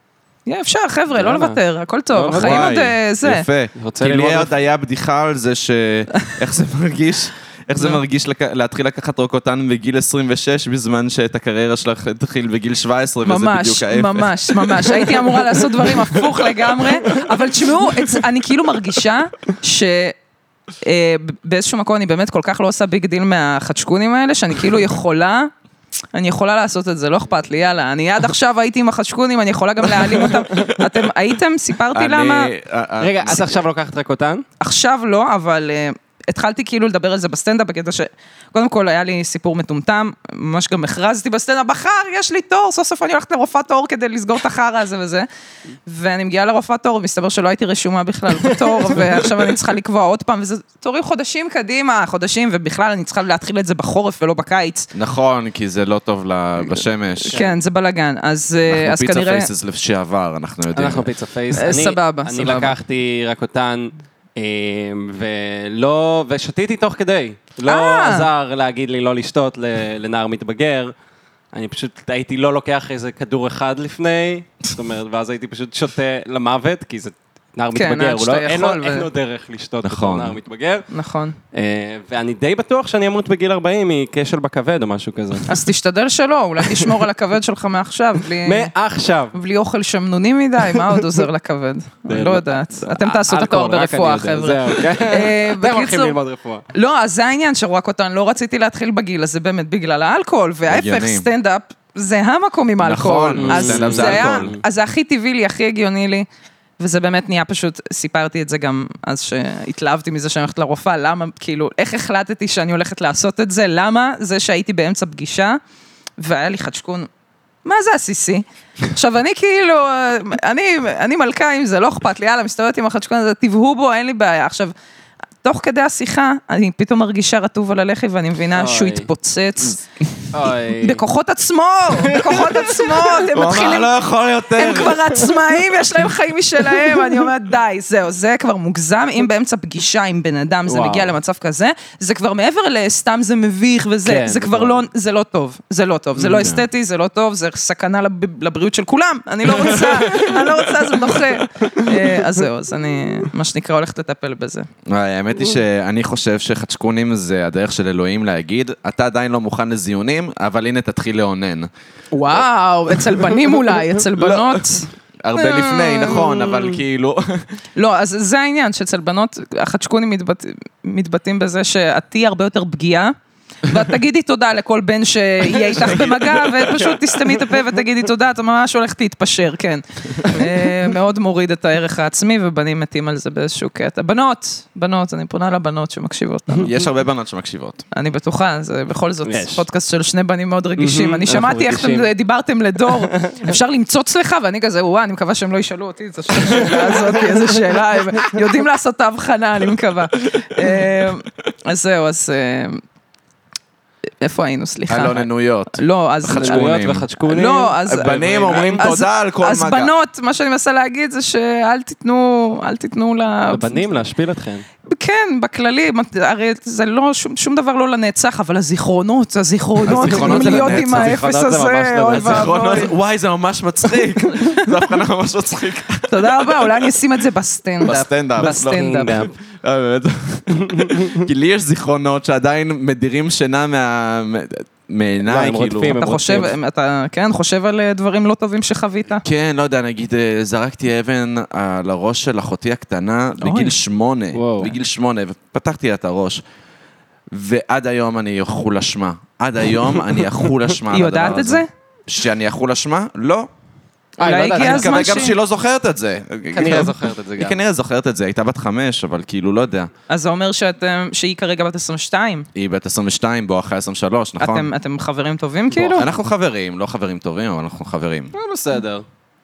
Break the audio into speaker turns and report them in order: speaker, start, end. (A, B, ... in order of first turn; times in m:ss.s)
0:00.5-0:03.4 A
0:01.1-0:01.6 B
0:02.1-0:02.8 B
0:02.3-0:14.4 C
0:03.8-0:04.5 B
0:13.2-0:20.2 A
0:20.8-0:25.5 A
0:26.1-0:32.5 A
0:31.9-0:33.5 C
0:33.0-0:34.4 B
0:34.6-0:45.3 A
0:45.9-0:54.9 A
0:48.8-0:49.2 B
0:54.9-0:57.4 C
0:57.2-0:59.5 A
0:57.3-0:57.6 B
0:58.7-1:01.1 C
1:00.7-1:10.9 B
1:01.5-1:02.8 A
1:07.6-1:08.3 A
1:11.5-1:20.9 B
1:17.7-1:19.1 A
1:19.8-1:20.4 C
1:20.9-1:21.4 A
1:21.5-1:25.6 B
1:25.5-1:28.7 A
1:26.7-1:26.9 B
1:28.4-1:29.3 B
1:29.3-1:36.2 A
1:32.1-1:36.6 B
1:36.7-1:46.3 A
1:40.7-1:41.3 C
1:42.8-1:44.5 C
1:43.4-1:44.6 B
1:46.8-1:55.6 A
1:56.2-1:57.1 A
1:57.6-2:04.7 A
2:05.4-2:09.8 A
2:08.6-2:09.1 B
2:10.3-2:11.0 B
2:10.8-2:13.9 A
2:12.0-2:13.2 B
2:13.3-2:15.2 C
2:14.5-2:34.7 A
2:20.7-2:21.2 B
2:24.0-2:24.8 B
2:26.2-2:26.6 C
2:34.9-2:41.7 C
2:42.1-2:46.7 A
2:45.2-2:47.5 C
2:47.8-2:53.1 A
2:53.6-3:06.7 A
2:55.8-2:56.5 C
3:06.6-3:07.8 C
3:07.9-3:22.8 A
3:09.3-3:09.7 B
3:10.8-3:12.1 B
3:12.9-3:13.4 B
3:24.2-3:33.8 A
3:24.9-3:27.1 C
3:26.3-3:28.9 B
3:27.9-3:29.9 C
3:33.5-3:34.7 B
3:34.9-3:42.9 A
3:39.8-3:41.2 C
3:39.9-3:42.7 B
3:42.1-3:46.8 C
3:46.1-3:49.3 A
3:47.8-3:56.0 C
3:47.9-3:49.3 B
3:50.7-3:51.2 B
3:55.3-3:56.6 B
3:56.0-3:59.3 A
3:59.2-4:06.4 C
4:03.4-4:03.8 A
4:04.3-4:04.7 B
4:07.3-4:13.5 C
4:10.9-4:11.7 A
4:14.2-4:15.3 B
4:14.2-4:15.4 A
4:14.6-4:19.9 C
4:16.5-4:17.6 B
4:20.1-4:22.5 A
4:22.6-4:24.7 C
4:24.4-4:26.1 A
4:25.7-4:26.0 B
4:26.0-4:28.3 C
4:28.3-4:29.0 B